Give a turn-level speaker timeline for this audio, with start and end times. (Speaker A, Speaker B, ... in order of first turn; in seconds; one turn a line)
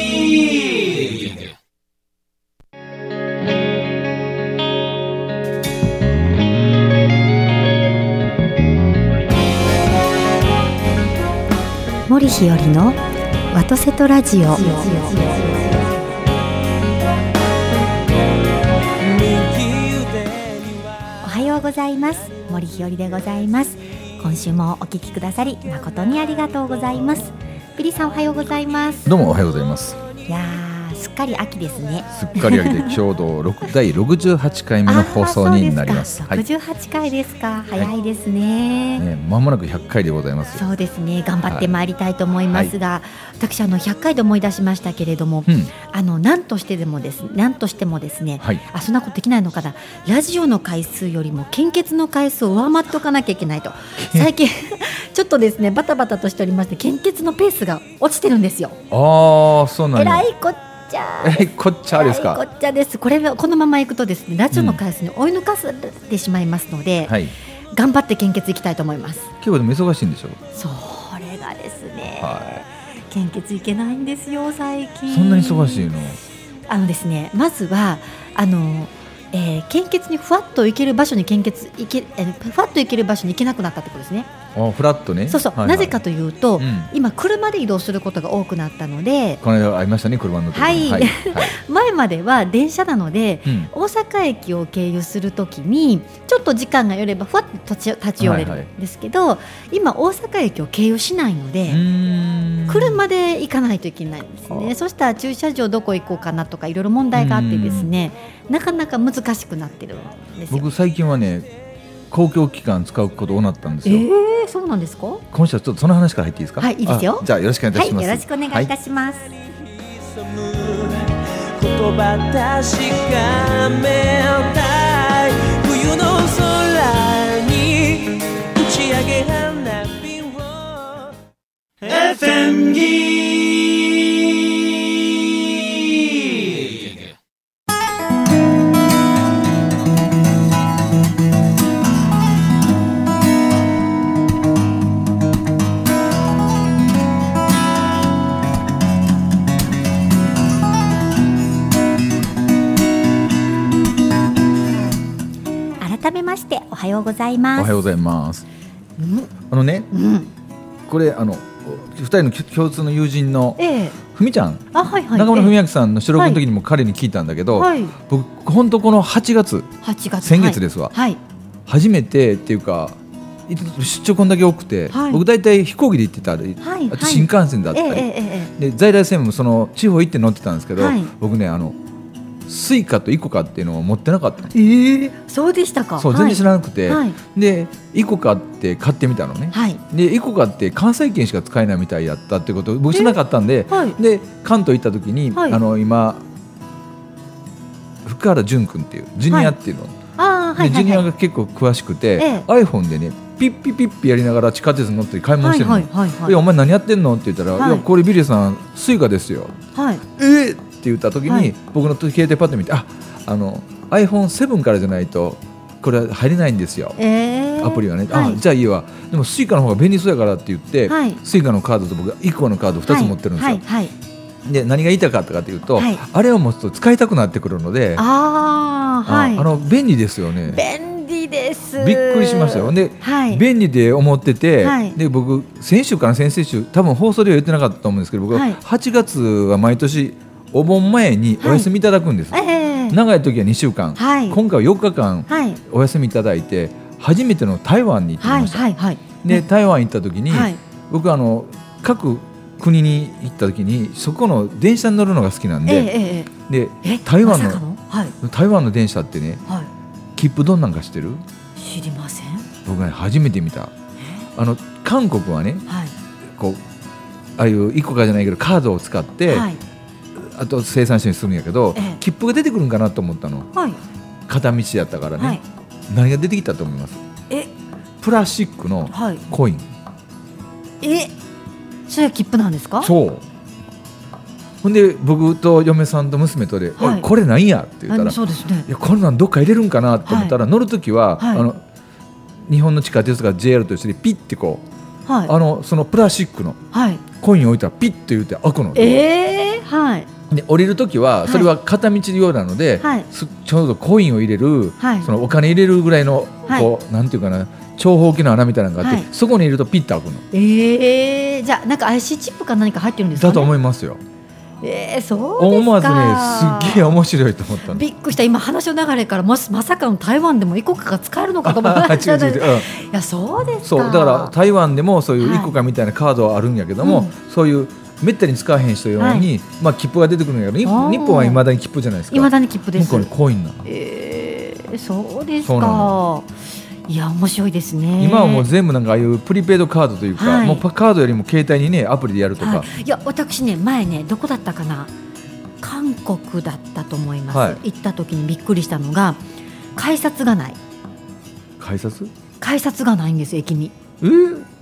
Speaker A: 0.6-1.3
Speaker B: 12.1-13.0
Speaker B: 13.5-15.9
Speaker A: 15.1-15.7
Speaker A: 19.0-21.2
Speaker B: 21.2-29.1
Speaker C: 29.1-30.0
Speaker B: 30.3-33.0
Speaker C: 32.1-36.4
Speaker B: 34.9-39.0
Speaker C: 39.0-40.6
Speaker B: 40.5-58.8
Speaker C: 54.0-54.3
Speaker C: 58.9-60.3
Speaker B: 60.0-67.2
Speaker C: 61.2-62.4
Speaker C: 64.5-64.8
Speaker C: 67.1-67.3
Speaker B: 67.7-69.3
Speaker C: 69.4-70.4
Speaker B: 70.5-76.0
Speaker C: 72.2-72.6
Speaker C: 75.1-76.2
Speaker B: 76.7-84.3
Speaker C: 84.5-86.0
Speaker B: 85.3-89.4
Speaker C: 86.6-86.9
Speaker C: 89.4-91.6
Speaker B: 90.5-101.8
Speaker C: 93.5-93.7
Speaker C: 98.2-98.7
Speaker C: 101.7-103.0
Speaker B: 102.7-110.7
Speaker C: 107.1-107.9
Speaker C: 110.5-111.5
Speaker C: 112.1-114.1
Speaker B: 113.8-115.2
Speaker C: 115.3-118.7
Speaker B: 116.6-119.3
Speaker A: 119.6-131.2
Speaker A: 131.8-137.1
Speaker B: 155.8-157.8
Speaker C: 157.6-158.5
Speaker B: 159.0-159.3
Speaker C: 159.5-159.9
Speaker B: 159.9-160.3
Speaker C: 160.9-169.7
Speaker B: 163.6-164.0
Speaker B: 164.7-165.6
Speaker B: 166.2-166.4
Speaker B: 167.5-168.0
Speaker B: 169.8-171.2
Speaker C: 170.2-170.9
Speaker C: 171.7-181.8
Speaker B: 174.9-175.2
Speaker B: 176.6-178.5
Speaker B: 180.8-181.1
Speaker C: 182.5-184.6
Speaker B: 184.5-187.2
Speaker C: 186.0-196.2
Speaker B: 189.5-189.8
Speaker B: 193.7-194.0
Speaker B: 195.3-195.6
Speaker C: 198.1-200.0
Speaker B: 199.3-199.6
Speaker B: 200.2-201.1
Speaker C: 200.6-209.6
Speaker B: 202.2-202.5
Speaker B: 205.4-206.4
Speaker B: 207.6-207.8
Speaker B: 209.8-210.0
Speaker C: 210.1-217.0
Speaker B: 211.3-211.5
Speaker B: 217.0-218.4
Speaker C: 217.6-223.6
Speaker B: 220.9-221.2
Speaker B: 222.9-223.9
Speaker C: 224.4-228.0
Speaker B: 225.8-226.0
Speaker B: 228.0-229.7
Speaker C: 229.1-230.6
Speaker B: 230.5-233.4
Speaker C: 231.8-248.7
Speaker B: 234.6-235.0
Speaker B: 238.3-238.6
Speaker B: 241.4-241.7
Speaker B: 242.3-243.0
Speaker B: 244.0-244.4
Speaker B: 245.3-245.6
Speaker B: 248.2-249.4
Speaker C: 249.2-255.9
Speaker B: 250.3-250.6
Speaker B: 255.7-256.3
Speaker C: 256.5-257.6
Speaker B: 256.8-258.1
Speaker C: 258.2-259.4
Speaker C: 260.2-261.2
Speaker B: 261.6-262.5
Speaker C: 262.6-263.7
Speaker B: 264.0-264.3
Speaker C: 264.4-265.6
Speaker B: 265.7-265.9
Speaker C: 266.3-266.6
Speaker C: 267.4-269.5
Speaker B: 269.3-269.6
Speaker C: 270.1-273.5
Speaker B: 271.8-272.0
Speaker B: 273.5-273.8
Speaker C: 274.3-277.0
Speaker B: 275.2-275.4
Speaker C: 278.0-279.7
Speaker B: 278.9-279.2
Speaker B: 280.8-281.1
Speaker B: 281.9-282.9
Speaker C: 282.8-283.2
Speaker C: 284.6-291.6
Speaker B: 286.8-287.1
Speaker B: 287.9-288.7
Speaker B: 290.1-290.4
Speaker B: 291.2-291.4
Speaker C: 292.5-294.6
Speaker B: 295.1-295.3
Speaker C: 295.3-296.6
Speaker B: 296.7-297.0
Speaker C: 297.1-299.0
Speaker B: 298.8-300.1
Speaker C: 300.3-310.2
Speaker B: 301.2-301.5
Speaker B: 302.8-303.1
Speaker B: 304.8-305.1
Speaker B: 308.8-309.1
Speaker B: 310.3-313.5
Speaker C: 313.2-314.0
Speaker B: 314.6-317.0
Speaker C: 315.4-317.8
Speaker B: 317.6-324.4
Speaker C: 321.4-322.7
Speaker C: 323.6-333.7
Speaker B: 325.2-325.6
Speaker B: 326.8-327.1
Speaker B: 329.0-329.3
Speaker B: 330.6-331.4
Speaker B: 332.1-333.1
Speaker B: 333.6-336.3
Speaker C: 335.4-336.0
Speaker B: 336.9-338.5
Speaker C: 338.0-342.7
Speaker B: 340.2-340.6
Speaker B: 342.4-344.9
Speaker B: 345.6-349.2
Speaker C: 347.3-347.6
Speaker B: 349.8-350.6
Speaker C: 351.6-352.1
Speaker B: 352.4-353.8
Speaker C: 354.0-354.5